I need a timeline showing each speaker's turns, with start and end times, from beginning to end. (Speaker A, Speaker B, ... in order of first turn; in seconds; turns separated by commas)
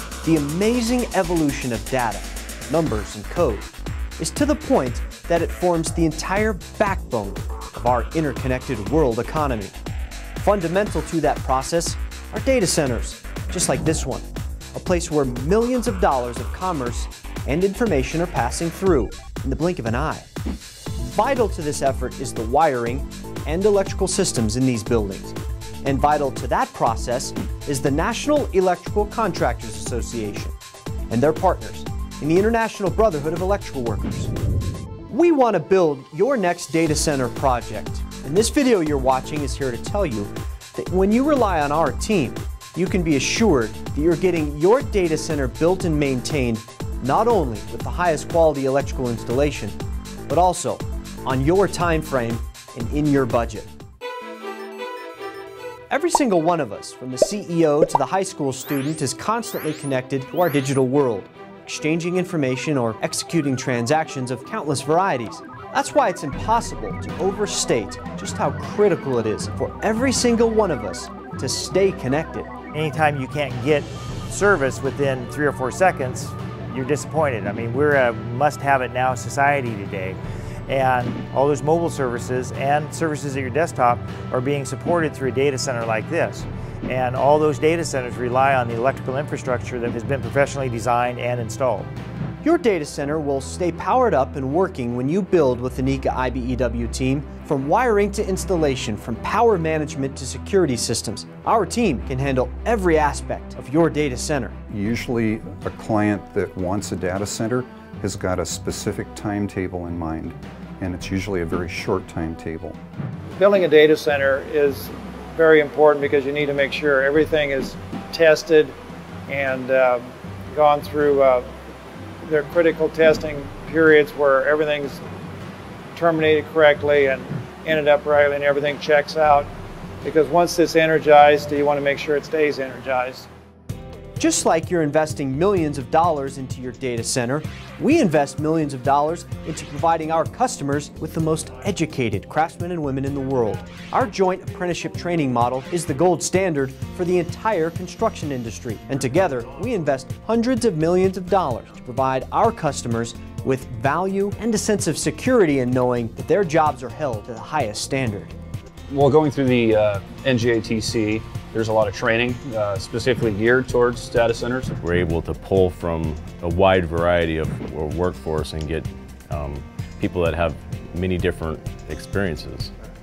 Speaker A: 0.2-9.8, Speaker A: 10.3-20.3, Speaker A: 21.0-30.6, Speaker A: 31.1-34.3, Speaker A: 35.1-53.7, Speaker A: 55.9-72.5, Speaker B: 72.7-91.9, Speaker A: 92.4-104.6, Speaker C: 104.7-112.8, Speaker D: 113.3-121.5, Speaker D: 122.2-125.0, Speaker D: 125.9-129.5, Speaker D: 130.0-133.3, Speaker A: 134.2-158.3, Speaker E: 158.9-164.7, Speaker F: 164.8-172.7